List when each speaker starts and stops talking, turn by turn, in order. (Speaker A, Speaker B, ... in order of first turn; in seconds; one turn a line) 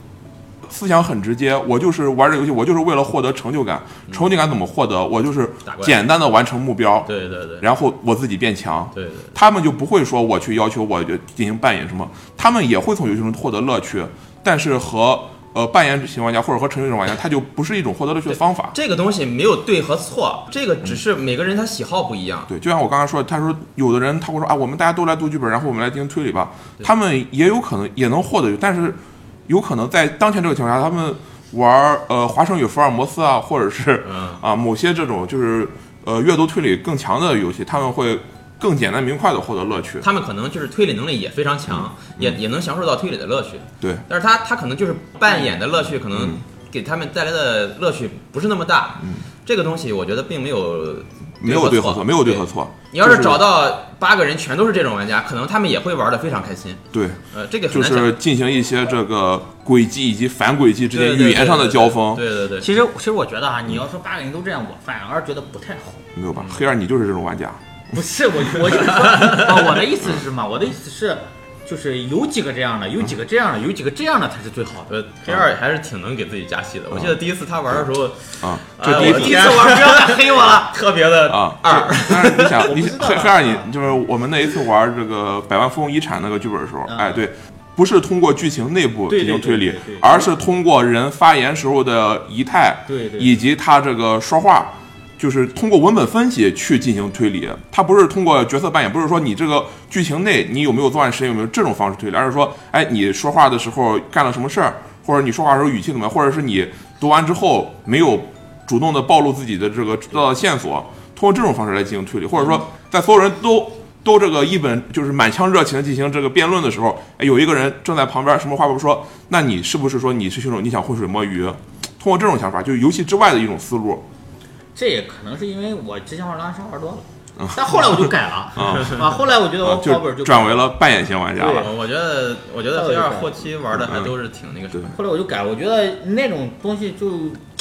Speaker A: 0.6-18.8
Speaker B: 5.7-6.0
Speaker B: 7.1-7.7
Speaker B: 8.9-9.3
Speaker B: 18.7-22.5
Speaker A: 22.5-40.1
Speaker B: 34.0-34.4
Speaker B: 40.0-58.2
Speaker A: 41.7-42.4
Speaker A: 46.1-46.4
Speaker A: 49.0-49.3
Speaker A: 51.4-53.4
Speaker A: 56.9-62.2
Speaker B: 60.9-62.7
Speaker C: 62.6-66.0
Speaker A: 66.2-67.6
Speaker B: 66.3-66.6
Speaker C: 67.9-75.0
Speaker B: 68.8-69.8
Speaker B: 74.9-82.7
Speaker A: 76.9-77.2
Speaker A: 78.4-79.4
Speaker C: 78.8-80.7
Speaker A: 81.3-124.0
Speaker C: 82.6-83.7
Speaker C: 86.9-87.2
Speaker C: 89.1-90.3
Speaker C: 92.9-93.4
Speaker C: 124.8-130.7
Speaker A: 127.4-131.7
Speaker B: 128.6-129.0
Speaker C: 131.4-131.7
Speaker B: 131.5-134.9
Speaker C: 132.7-133.5
Speaker A: 133.7-134.1
Speaker C: 134.9-137.4